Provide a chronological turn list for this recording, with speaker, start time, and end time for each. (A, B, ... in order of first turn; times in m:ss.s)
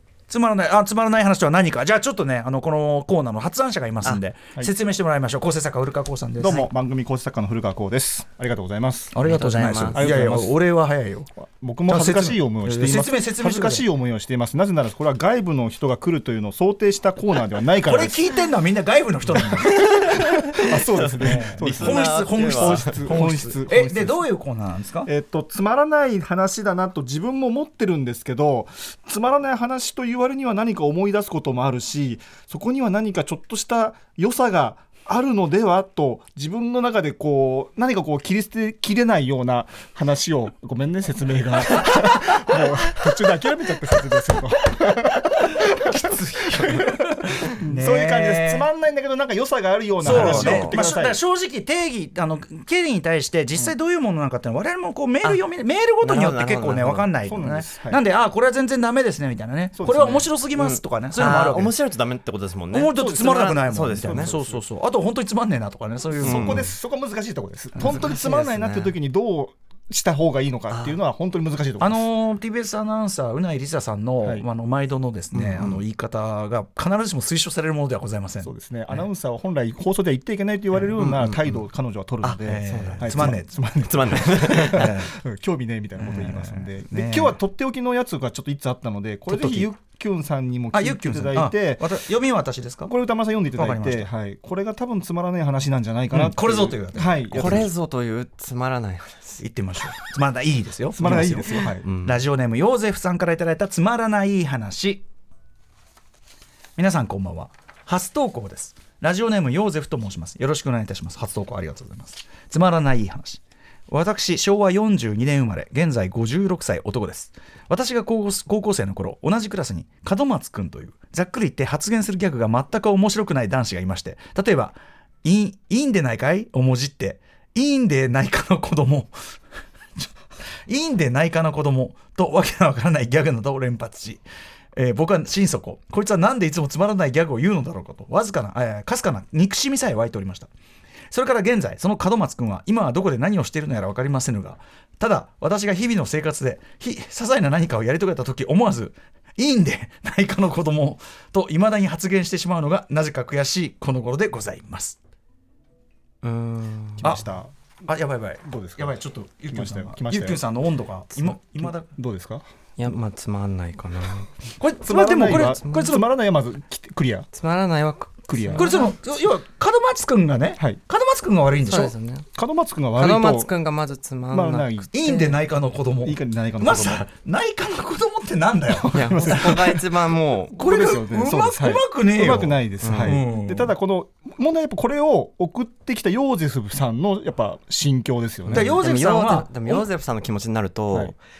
0:00.3-0:06.6 A
0:06.4-0:09.1 B
0:09.1-0:11.3 A
0:09.2-0:10.4 C
0:09.9-0:10.7 B
0:11.4-0:18.4 B
0:11.9-0:13.8 A
0:17.8-0:20.0 A
0:19.3-0:24.3 B
0:19.6-0:23.2 C
0:21.1-0:25.1 A
0:25.0-0:45.6 B
0:45.5-0:48.6 A
0:47.6-0:51.2 B
0:50.0-1:01.7 A
0:50.0-0:50.9 C
0:56.0-0:57.2 C
0:57.2-0:58.0 B
0:59.7-1:00.3 B
1:00.5-1:04.6 C
1:02.7-1:06.6 A
1:04.1-1:04.5 B
1:06.2-1:12.1 B
1:06.2-1:06.7 C
1:07.8-1:09.0 C
1:10.7-1:11.0 C
1:11.8-1:19.0 A
1:15.3-1:15.8 C
1:18.4-1:32.0 B
1:21.0-1:21.6 C
1:22.2-1:24.9 C
1:22.5-1:23.5 A
1:24.7-1:25.1 A
1:26.0-1:27.4 A
1:29.3-1:29.7 A
1:30.7-1:32.9 A
1:32.8-1:37.7 B
1:33.5-1:34.1 A
1:36.1-1:37.6 A
1:37.3-1:39.4 C
1:39.4-1:45.0 A
1:40.9-1:41.9 B
1:41.1-1:42.2 C
1:46.8-2:09.1 A
2:10.7-2:14.2 A
2:14.7-2:20.5 A
2:21.1-2:35.0 A
2:36.2-2:37.2 C
2:37.0-2:37.5 B
2:37.8-2:41.9 A
2:38.4-2:40.4 B
2:41.1-2:42.4 B
2:42.8-2:44.3 C
2:44.6-2:46.0 A
2:44.8-2:47.3 B
2:47.3-2:48.9 C
2:48.2-2:48.9 B
2:48.5-2:51.9 A
2:51.6-2:52.3 C
2:52.3-2:53.6 B
2:53.0-2:55.4 C
2:54.3-2:54.9 B
2:54.9-2:59.6 A
2:56.0-2:57.1 B
2:58.7-2:59.8 B
2:58.9-3:00.6 C
3:00.5-3:08.8 B
3:00.5-3:03.8 A
3:02.8-3:03.2 C
3:08.4-3:11.2 C
3:08.5-3:09.8 A